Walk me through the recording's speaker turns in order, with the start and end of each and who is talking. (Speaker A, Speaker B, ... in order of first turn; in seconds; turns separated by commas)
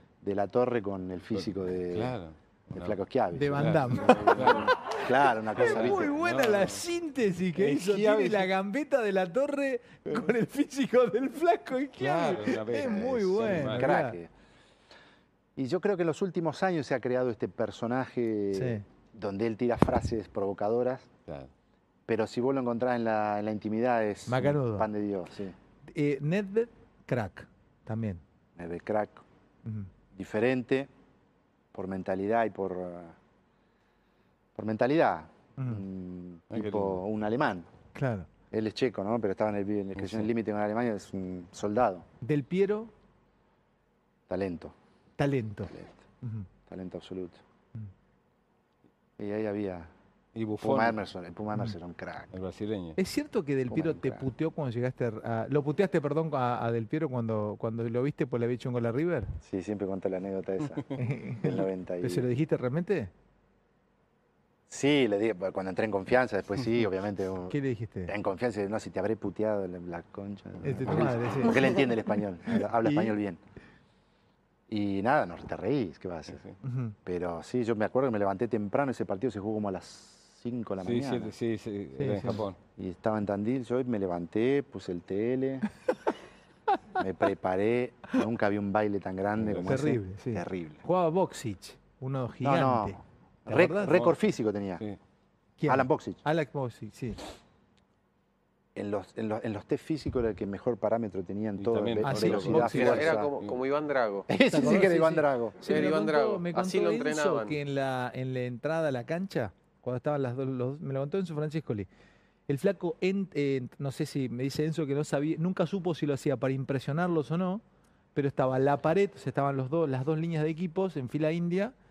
Speaker A: 0.2-2.1, Speaker B: 1.4-3.0, Speaker A: 2.7-6.1, Speaker C: 3.3-5.0, Speaker B: 3.5-4.7, Speaker C: 5.5-14.2, Speaker B: 5.6-6.8, Speaker B: 7.5-8.5, Speaker B: 12.0-13.9, Speaker A: 12.8-14.3, Speaker A: 15.6-21.1, Speaker C: 18.5-18.8, Speaker A: 22.1-25.5, Speaker C: 24.3-24.9, Speaker C: 25.9-28.2, Speaker A: 28.6-29.2, Speaker C: 29.6-29.9, Speaker A: 30.1-30.9, Speaker A: 31.7-33.2, Speaker A: 34.5-37.7, Speaker C: 35.6-35.8, Speaker B: 36.5-37.0, Speaker C: 37.9-38.3, Speaker A: 38.5-42.0, Speaker B: 40.0-40.3, Speaker C: 42.2-42.9, Speaker A: 44.3-44.7, Speaker C: 45.2-46.5, Speaker A: 46.6-47.4, Speaker A: 49.2-49.9, Speaker B: 50.3-51.0, Speaker A: 50.6-52.3, Speaker B: 52.3-53.0, Speaker C: 53.0-59.4, Speaker A: 53.7-54.3, Speaker A: 59.4-62.3, Speaker C: 61.0-63.1, Speaker A: 64.7-73.4, Speaker C: 67.5-68.1, Speaker C: 70.6-71.8, Speaker C: 72.8-73.2, Speaker A: 74.7-76.4, Speaker C: 76.6-77.0, Speaker A: 77.0-81.3, Speaker B: 80.8-82.6, Speaker C: 82.0-82.4, Speaker A: 82.8-85.7, Speaker A: 87.0-90.8, Speaker B: 89.4-89.8, Speaker C: 89.7-94.1, Speaker A: 92.4-94.8, Speaker C: 95.6-97.2, Speaker A: 95.7-96.2, Speaker A: 98.7-103.3, Speaker B: 101.6-103.6, Speaker C: 102.0-103.1, Speaker D: 102.4-104.3, Speaker A: 104.3-105.8, Speaker C: 104.4-111.9, Speaker D: 105.6-107.6, Speaker C: 112.5-117.6, Speaker C: 118.1-121.7